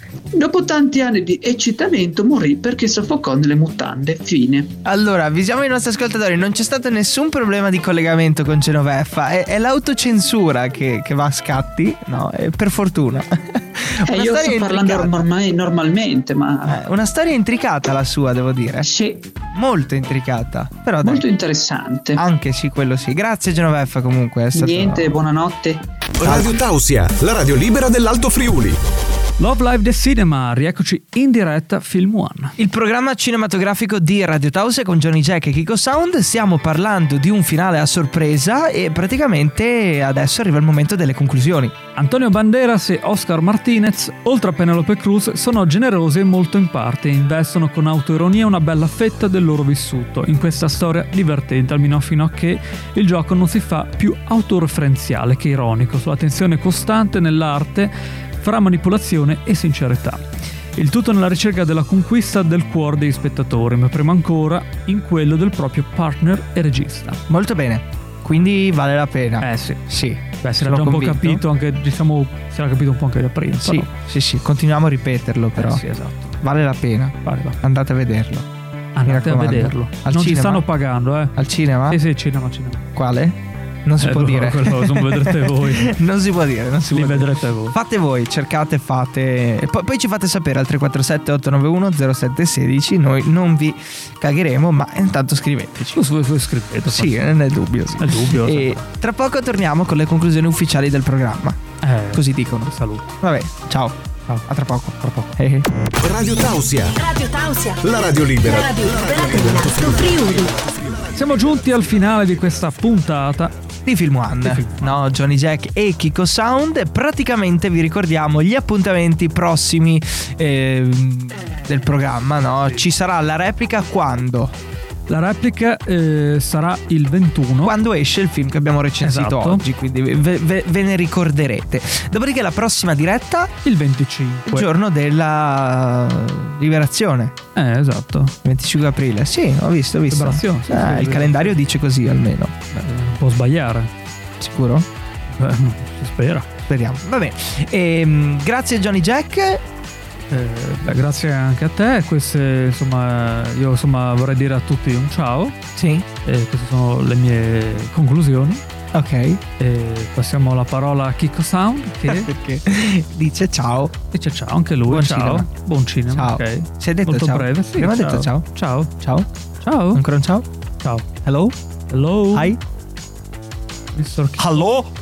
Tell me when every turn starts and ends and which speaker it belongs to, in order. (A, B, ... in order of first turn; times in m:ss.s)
0:00.4-0:04.7 A
0:04.8-0:15.1 B
0:14.1-0:16.8 A
0:16.6-0:18.9 B
0:18.8-0:19.3 A
0:19.5-0:21.2 B
0:21.0-0:22.2 A
0:22.2-0:25.1 B
0:24.5-0:25.8 A
0:26.2-0:28.8 C
0:26.2-0:26.5 B
0:29.4-0:32.5 D
0:32.6-0:41.7 B
0:42.0-1:00.2 D
1:00.8-1:07.2 D
1:07.3-1:11.4 B
1:09.4-1:09.8 D
1:10.4-1:13.9 D
1:13.6-1:15.8 B
1:15.6-1:16.4 D
1:16.4-1:18.4 B
1:17.2-1:17.6 D
1:19.0-1:21.3 D
1:19.0-1:20.6 B
1:21.4-1:22.0 B
1:21.9-1:22.8 D
1:22.9-1:36.0 B
1:24.0-1:26.0 D
1:26.9-1:27.8 D
1:36.0-1:37.2 D
1:36.9-1:41.6 B
1:38.0-1:38.8 D
1:41.8-1:43.1 D
1:42.1-1:45.7 B
1:45.0-1:45.4 D
1:46.0-1:47.0 C
1:47.0-1:47.8 E
1:47.8-1:50.4 C
1:48.4-1:50.6 E
1:51.1-1:53.5 D
1:53.8-2:04.5 B
1:54.4-1:55.0 D
2:05.1-2:07.7 D
2:07.6-2:13.5 B
2:09.0-2:09.6 D
2:13.6-2:14.7 D
2:14.5-2:17.3 B
2:17.6-2:18.3 D
2:18.4-2:22.5 B
2:20.1-2:21.6 D
2:22.7-2:23.9 D
2:24.4-2:24.8 B
2:25.3-2:26.5 D
2:26.7-2:29.6 B
2:30.3-2:35.6 D
2:35.8-2:36.0 B
2:36.2-2:38.6 D
2:38.9-2:39.4 B
2:39.6-2:42.3 D
2:42.1-2:43.9 B
2:44.1-2:48.9 D
2:44.9-2:45.5 B
2:46.1-2:48.4 B
2:49.0-2:49.3 B
2:49.6-2:50.0 D
2:49.9-2:50.4 B
2:51.2-2:51.5 B
2:51.9-2:52.6 D
2:52.3-2:52.6 B
2:53.9-2:54.6 D
2:54.4-2:54.9 B